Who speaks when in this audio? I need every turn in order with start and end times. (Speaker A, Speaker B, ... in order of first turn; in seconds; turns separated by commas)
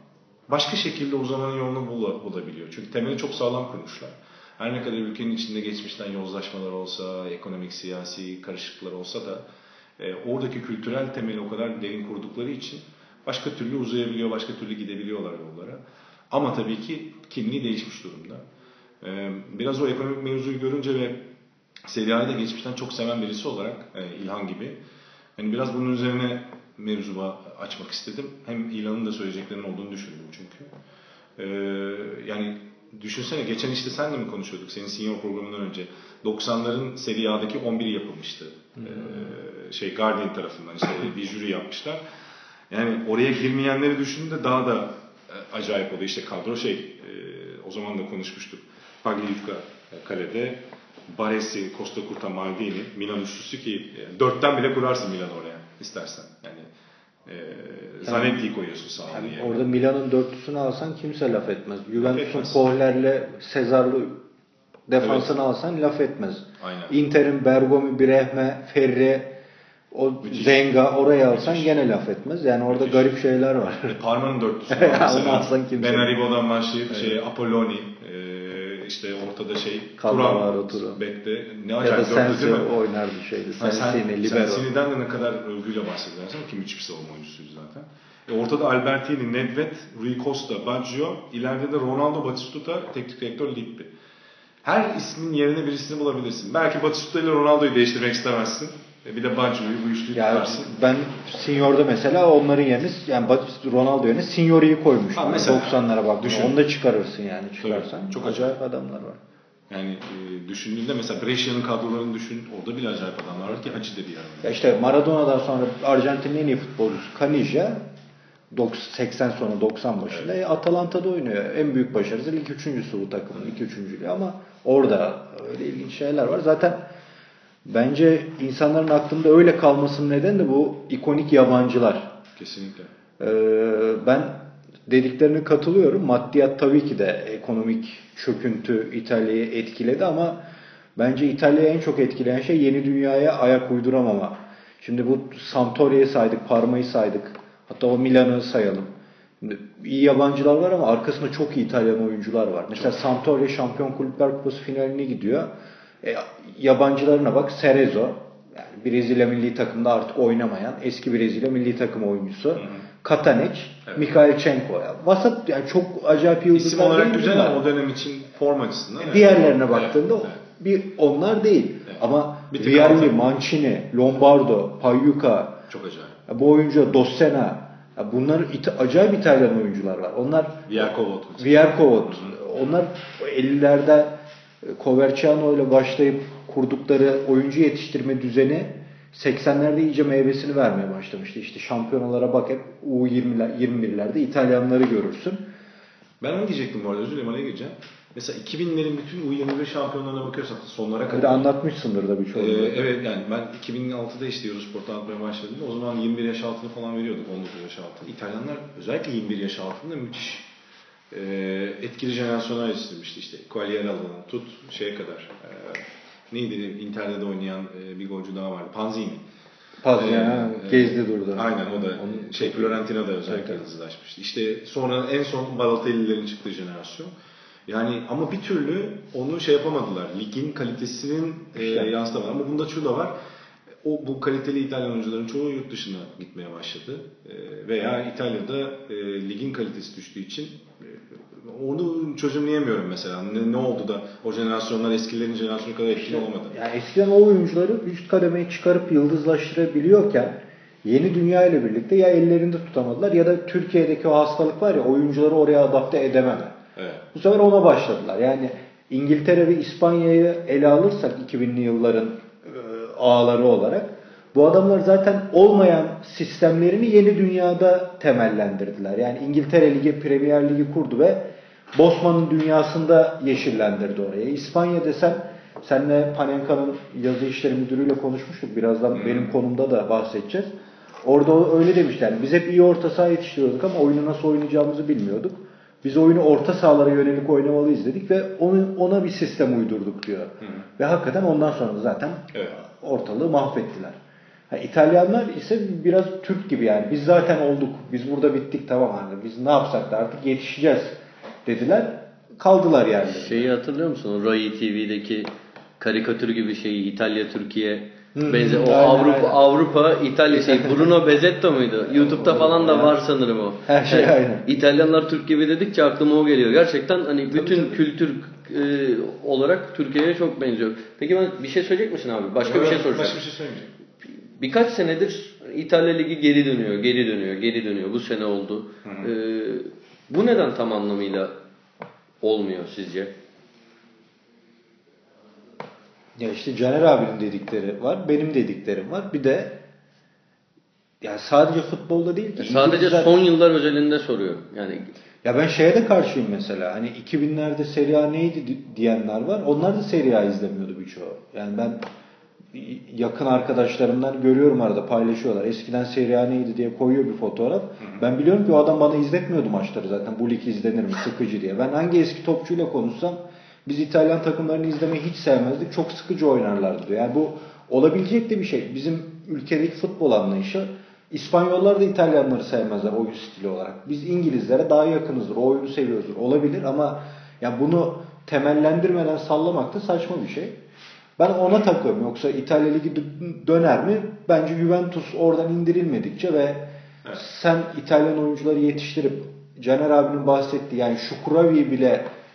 Speaker A: 0.5-9.4, Speaker A: 10.0-15.8, Speaker A: 16.3-18.4, Speaker A: 19.0-21.2, Speaker A: 21.9-24.8, Speaker A: 25.4-30.7, Speaker A: 31.4-42.0, Speaker A: 42.7-56.7, Speaker A: 57.3-59.6, Speaker B: 58.0-58.4, Speaker B: 59.1-64.2, Speaker A: 61.9-62.6, Speaker B: 64.9-69.3, Speaker A: 65.0-65.3, Speaker A: 66.6-67.0, Speaker B: 69.9-74.0, Speaker A: 70.2-70.7, Speaker A: 71.3-71.8, Speaker A: 72.7-73.1, Speaker A: 73.9-82.7, Speaker B: 74.7-76.2, Speaker B: 76.9-77.2, Speaker B: 80.0-81.0, Speaker B: 81.8-84.7, Speaker A: 83.6-93.9, Speaker A: 94.6-100.7, Speaker B: 100.1-109.2, Speaker A: 105.2-106.6, Speaker A: 107.6-108.6, Speaker A: 109.7-114.8, Speaker B: 114.4-117.8, Speaker B: 118.5-126.8, Speaker B: 127.7-132.2, Speaker A: 132.4-132.9, Speaker B: 133.2-140.4, Speaker B: 141.0-155.5, Speaker B: 156.0-167.7, Speaker A: 162.6-162.8, Speaker A: 166.5-170.4, Speaker B: 169.0-175.6, Speaker A: 171.9-173.2, Speaker A: 175.7-176.2, Speaker B: 176.3-195.4, Speaker A: 180.7-182.4, Speaker A: 196.2-201.5, Speaker B: 201.1-202.9, Speaker A: 202.3-210.5, Speaker A: 211.1-219.2, Speaker B: 219.8-223.6, Speaker A: 219.9-227.1, Speaker A: 227.7-233.1, Speaker B: 231.6-231.9, Speaker A: 233.8-246.6, Speaker B: 246.0-256.6, Speaker A: 256.8-257.1, Speaker B: 257.1-280.5, Speaker A: 278.9-279.3, Speaker B: 281.0-294.0, Speaker A: 290.4-290.7, Speaker B: 294.5-303.5, Speaker C: 303.1-323.2, Speaker B: 308.1-309.4, Speaker B: 312.2-313.0, Speaker B: 313.7-314.5, Speaker B: 317.4-317.8, Speaker A: 322.4-323.7, Speaker C: 324.4-331.3, Speaker A: 328.8-329.1, Speaker C: 332.2-333.1, Speaker B: 336.2-339.6, Speaker B: 341.0-343.2, Speaker C: 342.4-344.9, Speaker B: 345.2-351.8, Speaker B: 352.5-380.6, Speaker B: 381.2-392.1